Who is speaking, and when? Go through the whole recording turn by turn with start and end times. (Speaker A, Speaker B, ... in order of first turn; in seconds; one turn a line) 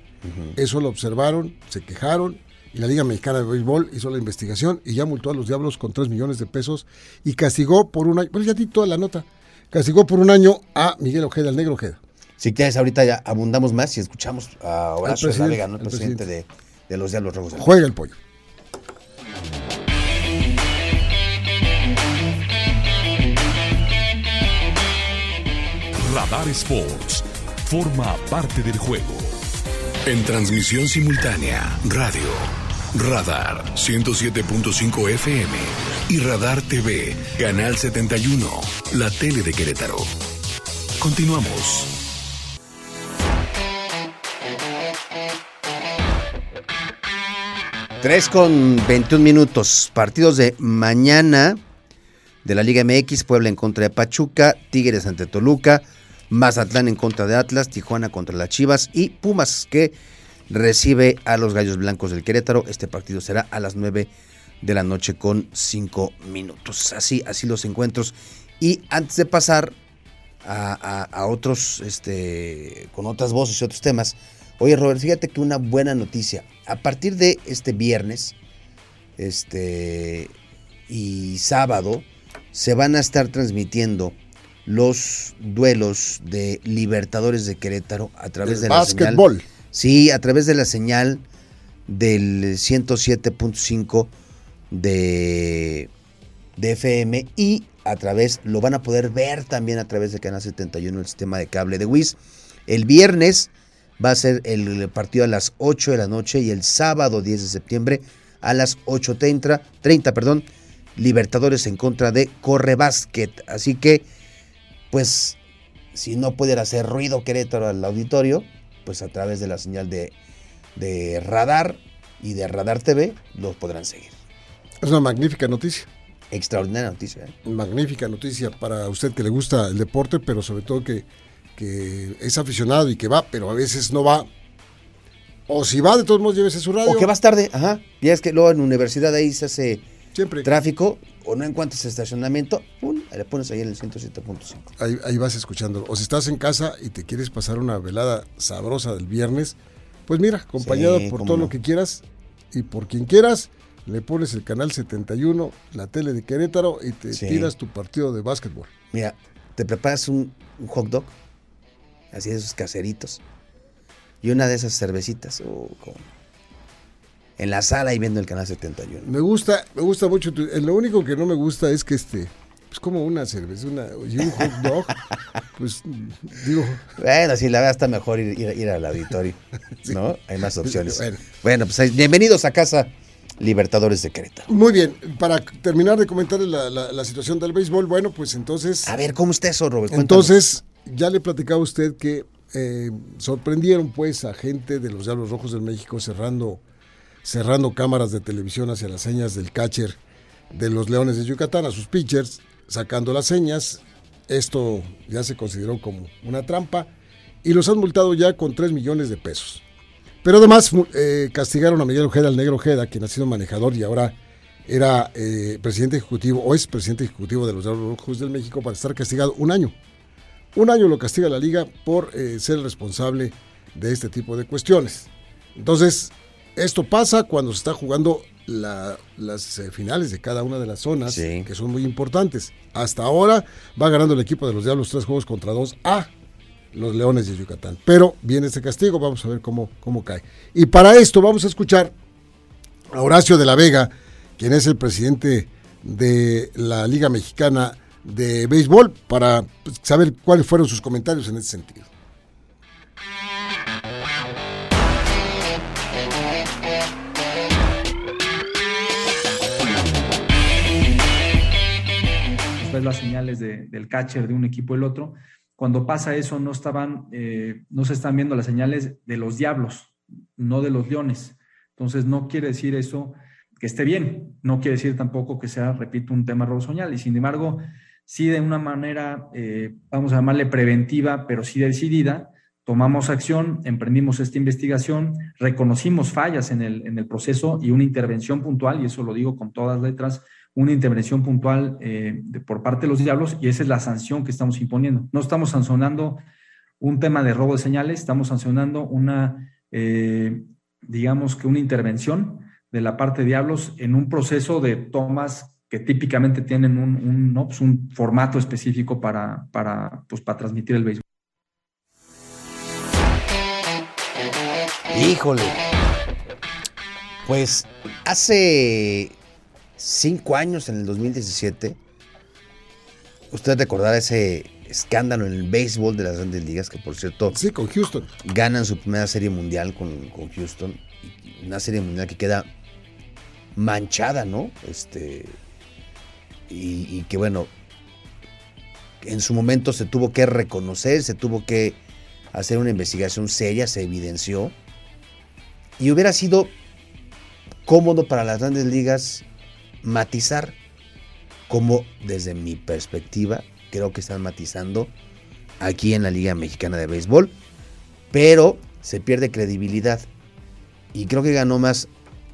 Speaker A: 0.2-0.6
Speaker B: 0.6-12.0
Speaker A: 12.4-17.7
Speaker B: 15.0-16.3
Speaker B: 17.6-18.2
Speaker C: 26.0-29.3
Speaker D: 30.1-40.1
Speaker D: 41.0-41.9
Speaker A: 48.0-51.6
Speaker A: 52.4-60.0
Speaker A: 60.5-64.1
Speaker A: 64.6-69.8
Speaker A: 70.4-78.4
Speaker A: 79.2-80.3
Speaker A: 80.9-91.2
Speaker B: 88.4-89.5
Speaker A: 91.9-94.1
Speaker A: 94.7-95.9
Speaker A: 96.6-102.2
Speaker A: 102.7-114.1
Speaker A: 114.9-115.4
Speaker A: 115.9-120.1
Speaker A: 120.8-124.2
Speaker B: 124.8-125.9
Speaker A: 126.3-127.3
Speaker B: 127.5-134.3
Speaker B: 135.5-137.1
Speaker A: 136.8-139.8
Speaker B: 140.1-140.5
Speaker A: 140.4-144.7
Speaker B: 144.8-158.7
Speaker A: 150.6-151.5
Speaker A: 157.1-157.5
Speaker A: 158.9-161.1
Speaker A: 162.1-163.2
Speaker A: 164.2-166.1
Speaker A: 167.4-169.1
Speaker B: 169.0-174.9
Speaker B: 175.6-176.9
Speaker A: 177.0-184.5
Speaker B: 180.6-181.2
Speaker B: 184.5-188.9
Speaker A: 188.8-190.4
Speaker B: 189.9-196.6
Speaker B: 197.2-200.0
Speaker B: 200.5-206.9
Speaker B: 207.4-209.6
Speaker B: 210.2-219.8
Speaker B: 220.5-236.1
Speaker A: 231.1-231.5
Speaker B: 236.7-241.9
Speaker B: 242.9-251.9
Speaker E: 262.6-296.2
Speaker E: 296.8-311.0
Speaker A: 314.9-315.6
Speaker A: 317.2-319.1
Speaker A: 319.8-321.8
Speaker A: 323.3-327.4
Speaker B: 327.3-328.1
Speaker A: 328.2-332.5
Speaker A: 333.6-335.4
Speaker A: 336.5-337.5
Speaker A: 339.0-341.8
Speaker A: 342.3-344.6
Speaker A: 345.8-346.5
Speaker A: 347.7-349.2
Speaker A: 349.8-350.6
Speaker A: 351.5-354.9
Speaker A: 355.6-357.3
Speaker A: 358.1-360.1
Speaker A: 360.9-361.9